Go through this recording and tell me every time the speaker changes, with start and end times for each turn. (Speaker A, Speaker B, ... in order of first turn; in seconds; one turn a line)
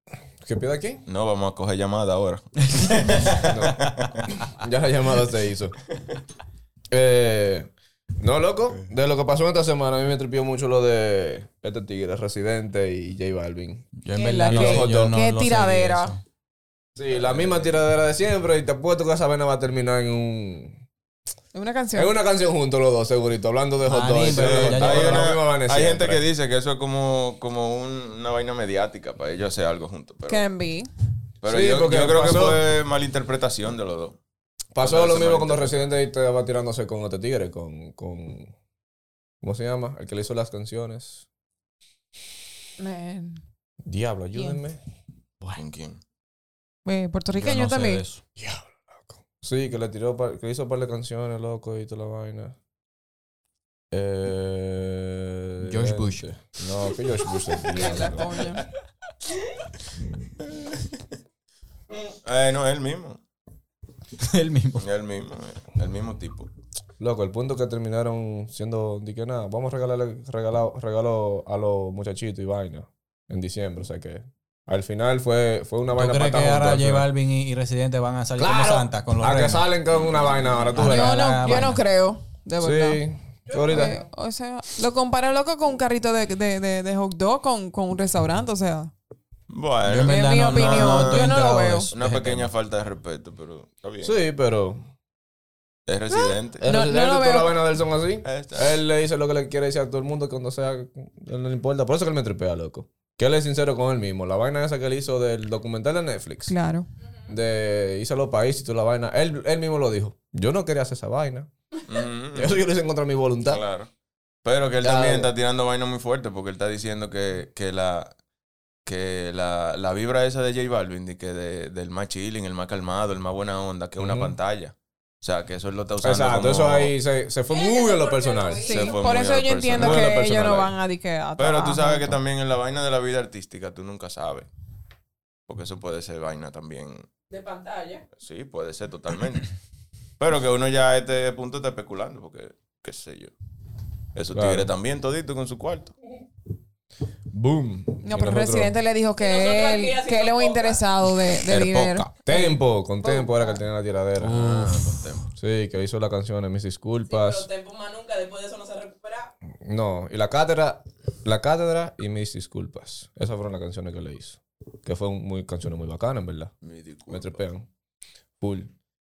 Speaker A: 0.4-1.0
Speaker B: 1.1-4.1
Speaker C: 2.8-3.5
Speaker A: 3.4-5.8
Speaker A: 6.9-13.9
Speaker C: 14.0-16.2
Speaker D: 14.1-16.1
Speaker A: 14.5-15.1
Speaker A: 16.9-20.8
Speaker D: 21.5-22.1
Speaker A: 21.9-26.2
Speaker C: 23.9-25.3
Speaker B: 24.3-30.4
Speaker D: 30.3-30.9
Speaker B: 31.4-34.2
Speaker A: 31.4-32.6
Speaker A: 34.7-38.5
Speaker B: 34.8-35.9
Speaker A: 39.4-41.2
Speaker D: 42.8-43.4
Speaker A: 43.8-44.8
Speaker B: 45.5-46.0
Speaker D: 46.8-48.0
Speaker C: 47.3-48.2
Speaker A: 48.4-48.6
Speaker A: 49.2-52.5
Speaker A: 53.9-58.4
Speaker C: 55.6-56.3
Speaker D: 57.7-58.6
Speaker B: 62.0-63.2
Speaker C: 64.2-64.8
Speaker B: 64.8-66.5
Speaker A: 67.0-77.1
Speaker C: 75.9-79.7
Speaker A: 78.4-81.6
Speaker B: 80.2-80.5
Speaker C: 80.7-81.8
Speaker D: 80.8-83.0
Speaker A: 82.6-84.0
Speaker D: 83.6-88.9
Speaker B: 89.5-91.4
Speaker C: 89.8-92.5
Speaker D: 89.9-91.9
Speaker B: 91.9-94.2
Speaker A: 94.0-94.8
Speaker B: 95.8-96.7
Speaker A: 96.6-106.5
Speaker D: 96.6-97.5
Speaker B: 98.2-98.8
Speaker D: 106.5-106.8
Speaker A: 107.3-111.5
Speaker B: 111.9-112.6
Speaker A: 112.3-113.6
Speaker B: 113.4-113.9
Speaker B: 114.4-118.1
Speaker A: 114.8-115.3
Speaker B: 118.8-126.9
Speaker A: 124.0-124.3
Speaker A: 126.0-128.7
Speaker E: 127.5-129.2
Speaker D: 128.6-132.2
Speaker B: 128.7-130.1
Speaker A: 129.8-130.7
Speaker B: 131.4-134.5
Speaker B: 135.5-137.1
Speaker E: 137.3-138.0
Speaker B: 138.2-139.5
Speaker B: 140.2-143.3
Speaker B: 144.1-145.9
Speaker A: 144.3-144.7
Speaker A: 147.3-148.7
Speaker D: 148.0-152.6
Speaker E: 149.2-150.8
Speaker B: 151.5-152.1
Speaker A: 152.2-154.4
Speaker C: 154.2-154.9
Speaker B: 154.3-155.2
Speaker A: 155.3-157.5
Speaker E: 157.1-159.3
Speaker A: 159.6-166.5
Speaker B: 166.6-167.4
Speaker A: 167.1-167.7
Speaker A: 168.4-168.7